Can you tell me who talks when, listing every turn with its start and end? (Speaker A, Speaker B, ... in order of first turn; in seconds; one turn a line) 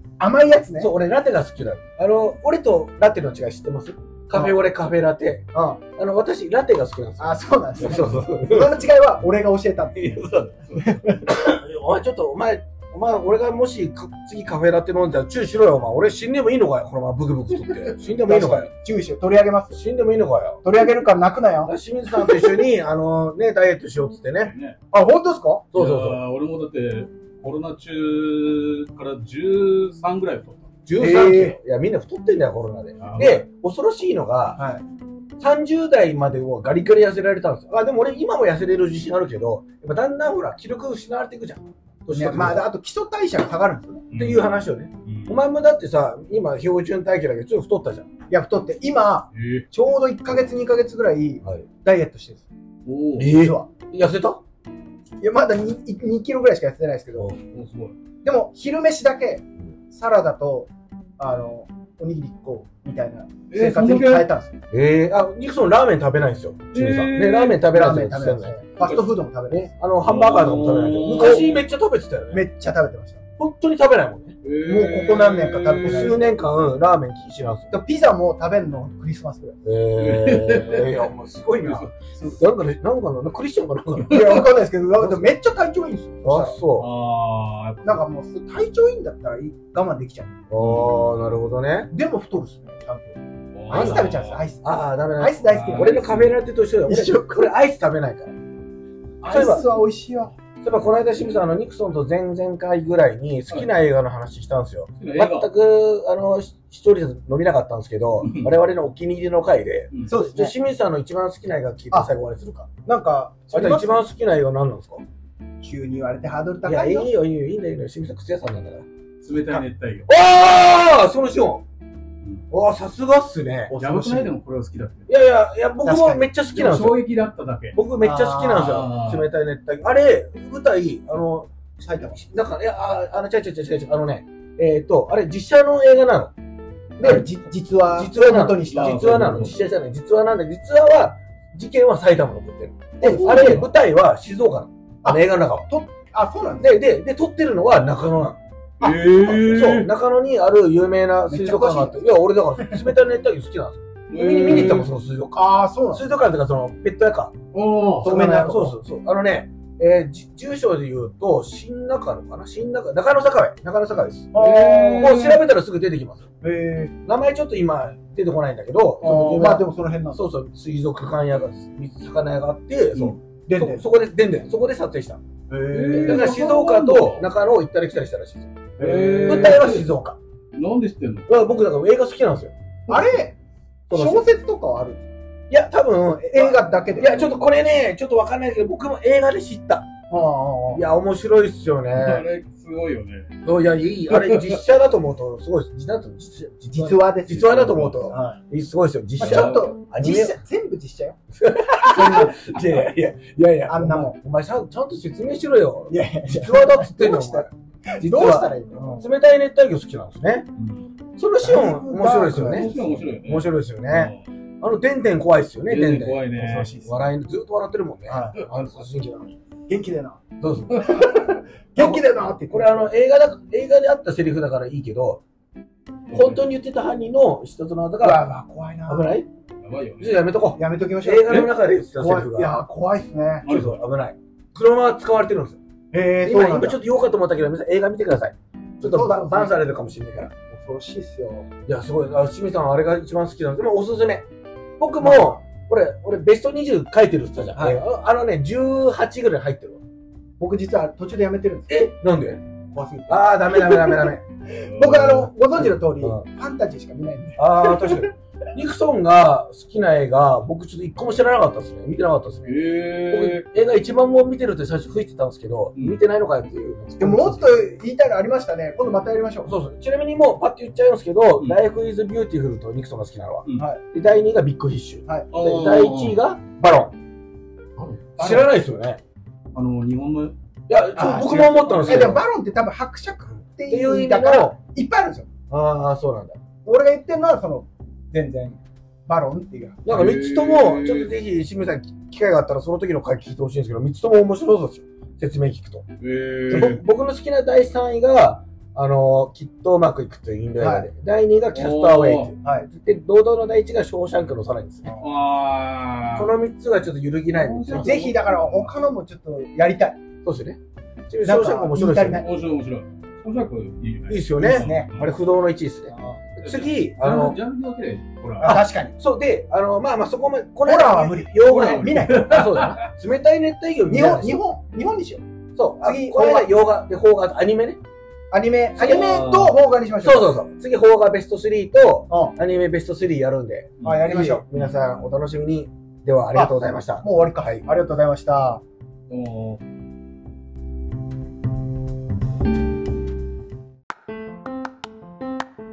Speaker A: 0.2-0.9
Speaker B: 0.8-8.8
Speaker A: 5.5-5.8
Speaker A: 7.2-10.2
Speaker B: 9.9-18.7
Speaker A: 10.8-11.3
Speaker A: 18.2-19.8
Speaker B: 19.7-20.6
Speaker A: 20.6-21.7
Speaker B: 21.6-24.5
Speaker C: 24.4-24.8
Speaker A: 24.9-25.6
Speaker B: 25.7-26.2
Speaker C: 25.7-30.6
Speaker B: 30.9-34.6
Speaker A: 31.0-31.6
Speaker C: 33.0-33.4
Speaker A: 34.6-34.8
Speaker B: 35.4-42.6
Speaker A: 42.1-44.0
Speaker C: 44.1-45.4
Speaker B: 44.1-48.1
Speaker A: 48.3-52.5
Speaker C: 49.3-49.6
Speaker C: 52.9-53.3
Speaker B: 53.2-54.4
Speaker A: 53.3-53.7
Speaker A: 55.2-57.3
Speaker C: 57.5-57.9
Speaker A: 58.2-64.5
Speaker C: 63.5-64.3
Speaker B: 64.7-68.6
Speaker C: 66.7-67.6
Speaker A: 67.7-69.7
Speaker C: 68.8-69.1
Speaker B: 69.5-72.5
Speaker C: 70.0-71.6
Speaker A: 72.3-73.2
Speaker B: 73.4-74.4
Speaker C: 74.4-76.2
Speaker A: 74.6-76.2
Speaker B: 75.8-77.7
Speaker A: 77.7-79.6
Speaker B: 79.6-85.3
Speaker C: 80.0-82.3
Speaker A: 84.1-86.6
Speaker C: 84.1-84.4
Speaker B: 86.2-86.9
Speaker C: 86.8-88.0
Speaker A: 87.8-90.3
Speaker B: 90.5-91.9
Speaker C: 90.6-91.1
Speaker A: 91.9-96.1
Speaker C: 93.5-94.4
Speaker B: 93.7-98.4
Speaker C: 95.5-96.3
Speaker A: 96.9-97.4
Speaker A: 99.2-100.3
Speaker B: 99.3-99.7
Speaker B: 100.6-112.7
Speaker C: 105.0-105.5
Speaker C: 108.2-108.5
Speaker A: 110.0-110.5
Speaker A: 112.8-114.0
Speaker B: 113.5-115.0
Speaker A: 115.6-117.1
Speaker B: 116.6-118.8
Speaker C: 119.2-120.1
Speaker B: 120.1-121.6
Speaker B: 122.5-123.7
Speaker A: 123.7-124.3
Speaker C: 123.8-125.1
Speaker B: 125.1-127.0
Speaker A: 125.8-126.2
Speaker C: 126.5-127.8
Speaker B: 127.7-136.3
Speaker A: 128.0-128.8
Speaker C: 128.5-129.2
Speaker A: 131.8-132.2
Speaker B: 137.0-137.3
Speaker A: 137.0-139.4
Speaker B: 137.9-145.6
Speaker C: 138.6-139.5
Speaker A: 143.0-143.6
Speaker C: 143.0-143.7
Speaker A: 145.0-146.8
Speaker B: 146.6-148.4
Speaker C: 148.8-149.9
Speaker A: 148.8-149.3
Speaker B: 149.3-157.4
Speaker A: 151.3-152.0
Speaker C: 154.1-154.9
Speaker A: 155.3-156.0
Speaker C: 157.5-158.1
Speaker A: 158.0-158.8
Speaker B: 158.0-164.3
Speaker A: 164.3-165.3
Speaker C: 164.3-165.4
Speaker B: 165.0-166.2
Speaker A: 166.4-166.9
Speaker B: 167.1-175.2
Speaker A: 169.0-170.2
Speaker A: 173.0-173.8
Speaker A: 175.5-176.3
Speaker C: 175.7-177.2
Speaker B: 175.9-178.6
Speaker A: 178.8-179.7
Speaker C: 178.8-179.9
Speaker B: 179.3-180.2
Speaker C: 180.5-181.3
Speaker B: 181.3-182.5
Speaker A: 182.9-183.3
Speaker B: 183.9-184.2
Speaker A: 183.9-185.1
Speaker B: 185.5-189.9
Speaker A: 186.3-187.3
Speaker A: 190.1-190.8
Speaker B: 190.7-192.2
Speaker C: 191.9-193.4
Speaker B: 193.4-200.3
Speaker C: 194.1-194.6
Speaker A: 196.7-198.4
Speaker A: 199.2-201.2
Speaker C: 199.2-199.7
Speaker B: 201.3-207.5
Speaker A: 201.7-202.5
Speaker A: 203.7-204.2
Speaker A: 205.9-209.1
Speaker B: 208.0-210.5
Speaker C: 210.6-210.9
Speaker B: 211.2-216.3
Speaker A: 211.4-213.0
Speaker C: 212.3-214.2
Speaker C: 215.7-216.8
Speaker A: 216.3-216.9
Speaker B: 216.8-219.3
Speaker A: 218.1-218.4
Speaker A: 219.7-220.2
Speaker B: 220.4-220.9
Speaker A: 220.7-222.8
Speaker B: 221.8-225.2
Speaker C: 226.1-226.4
Speaker B: 226.1-228.2
Speaker A: 228.0-229.2
Speaker B: 228.9-229.3
Speaker C: 229.6-230.3
Speaker B: 230.0-232.6
Speaker A: 230.6-233.5
Speaker C: 233.4-233.8
Speaker B: 233.5-235.6
Speaker A: 235.9-236.8
Speaker B: 236.2-240.3
Speaker A: 238.8-239.6
Speaker A: 240.5-241.5
Speaker B: 241.7-244.3
Speaker B: 244.8-249.8
Speaker A: 245.0-245.4
Speaker A: 247.6-247.8
Speaker A: 250.4-251.9
Speaker B: 251.7-252.4
Speaker A: 252.7-258.1
Speaker B: 253.1-254.2
Speaker C: 254.7-255.3
Speaker B: 255.6-256.2
Speaker B: 257.4-267.6
Speaker C: 262.4-263.4
Speaker A: 267.0-269.5
Speaker B: 269.4-276.9
Speaker A: 273.6-273.8
Speaker C: 275.3-276.2
Speaker C: 277.8-278.1
Speaker B: 278.2-279.0
Speaker A: 278.2-278.4
Speaker C: 279.5-280.3
Speaker B: 280.7-282.2
Speaker A: 280.9-285.3
Speaker C: 281.1-282.2
Speaker B: 283.7-284.6
Speaker B: 285.5-286.4
Speaker A: 286.6-289.8
Speaker B: 289.8-295.8
Speaker C: 289.9-291.1
Speaker C: 296.0-296.8
Speaker A: 296.5-296.8
Speaker B: 296.5-304.9
Speaker A: 300.6-300.9
Speaker C: 301.5-302.3
Speaker A: 302.4-302.7
Speaker C: 305.0-306.3
Speaker B: 306.1-308.0
Speaker C: 307.3-308.7
Speaker A: 307.7-310.0
Speaker B: 310.2-310.6
Speaker B: 311.1-312.3
Speaker A: 311.2-312.3
Speaker C: 312.1-315.1
Speaker B: 314.1-317.4
Speaker A: 314.4-314.9
Speaker A: 315.9-316.2
Speaker C: 316.4-318.7
Speaker A: 318.4-318.9
Speaker B: 318.5-324.4
Speaker A: 320.6-322.4
Speaker C: 321.5-322.9
Speaker A: 323.9-325.2
Speaker B: 325.6-327.8
Speaker A: 325.8-326.5
Speaker A: 328.3-330.3
Speaker C: 328.8-329.6
Speaker B: 328.8-329.2
Speaker B: 330.0-337.6
Speaker A: 332.1-332.4
Speaker C: 333.8-334.1
Speaker A: 333.8-334.4
Speaker A: 336.3-338.6
Speaker C: 339.1-339.6